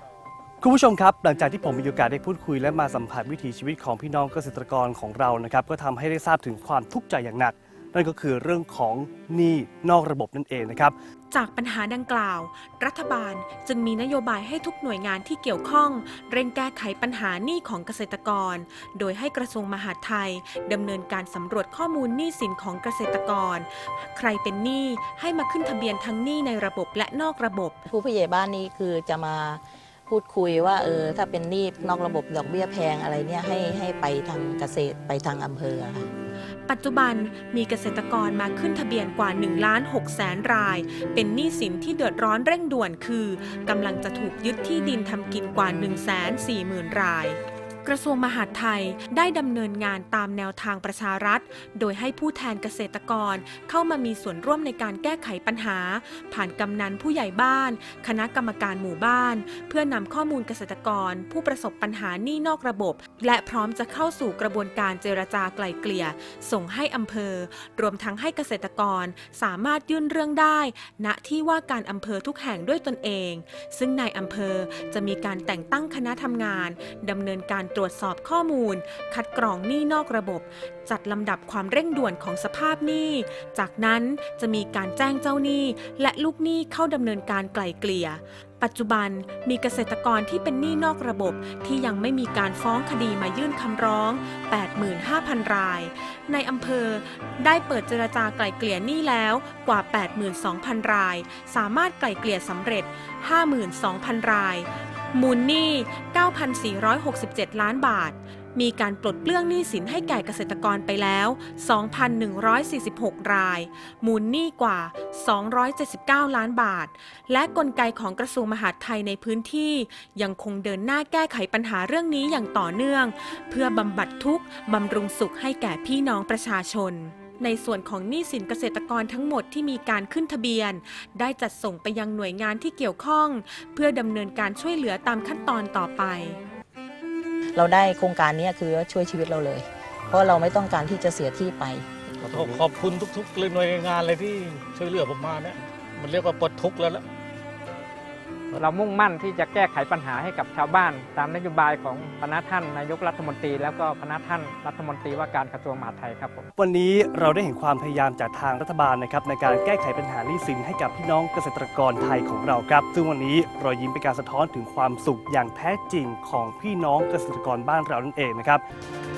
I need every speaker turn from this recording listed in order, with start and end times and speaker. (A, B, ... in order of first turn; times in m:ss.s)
0:00.6-0:10.9 A
0:11.3-0:27.8 B
0:27.9-0:36.1 C
0:36.7-2:16.4 B
2:17.5-2:21.9 C
2:22.2-2:27.0 D
2:28.5-2:36.4 E
2:36.6-2:48.6 A